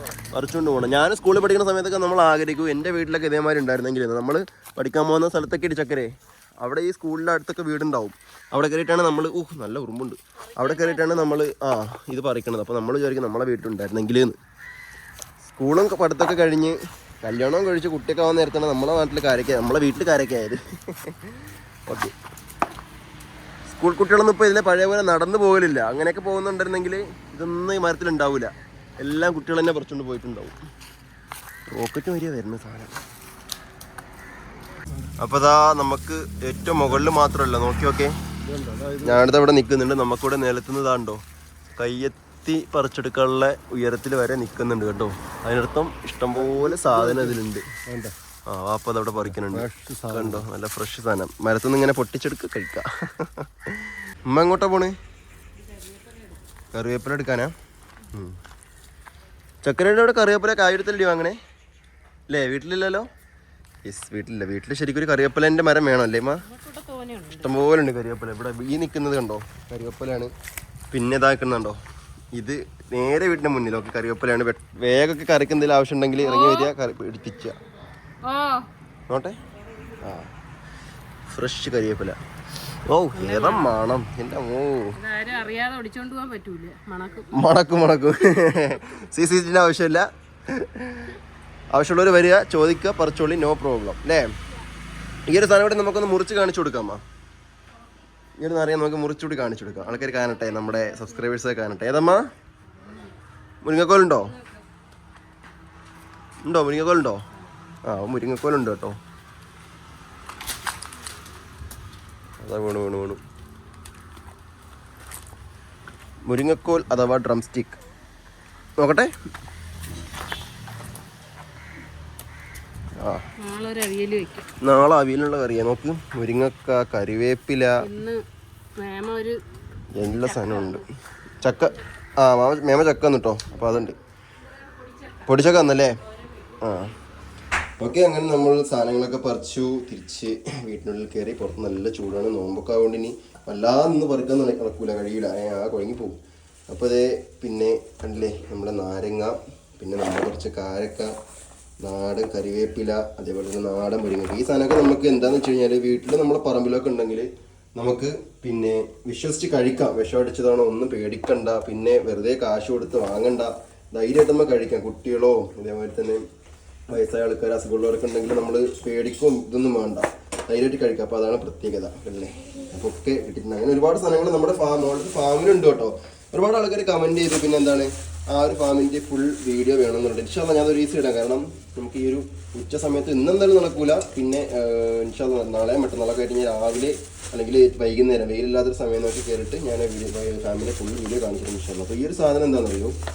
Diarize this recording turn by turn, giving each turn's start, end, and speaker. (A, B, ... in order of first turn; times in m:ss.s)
0:00.3-0:14.4 A
0:10.6-0:11.2 B
0:15.4-0:21.3 A
0:21.9-0:22.1 A
0:23.7-0:30.6 A
0:31.7-0:33.0 A
0:35.2-0:38.1 A
0:38.4-0:39.3 C
0:39.0-0:41.2 A
0:41.8-0:47.7 A
0:46.3-0:48.1 C
0:48.5-0:54.9 A
0:49.3-0:50.4 C
0:55.6-0:56.4 B
0:56.7-0:57.5 A
0:58.1-0:58.4 A
0:59.6-1:01.4 A
1:02.3-1:03.1 A
1:03.8-1:06.4 A
1:06.4-1:07.6 B
1:07.4-1:10.3 A
1:10.9-1:11.8 A
1:12.3-1:17.6 A
1:16.2-1:16.7 B
1:18.2-1:18.7 B
1:19.1-1:19.4 A
1:20.0-1:20.3 A
1:21.3-1:25.0 A
1:23.1-1:23.8 B
1:25.0-1:27.4 B
1:27.3-1:31.2 A
1:31.7-1:34.3 A
1:35.3-1:37.0 A
1:38.4-1:42.2 A
1:39.8-1:41.1 B
1:43.6-1:44.3 A
1:46.4-1:47.2 A
1:47.8-1:49.0 A
1:52.4-1:53.2 A
1:56.3-1:57.8 A
1:58.8-1:59.1 A
2:03.0-2:03.2 A
2:03.4-2:04.5 B
2:04.6-2:07.8 A
2:07.8-2:08.2 B
2:08.8-2:09.4 B
2:09.9-2:10.8 A
2:10.0-2:10.8 B
2:11.4-2:14.0 A
2:14.7-2:15.3 B
2:15.2-2:16.0 A
2:16.2-2:16.5 B
2:16.6-2:16.9 A
2:17.8-2:26.2 A
2:26.7-2:31.1 A
2:31.8-2:46.2 A
2:46.9-3:12.9 A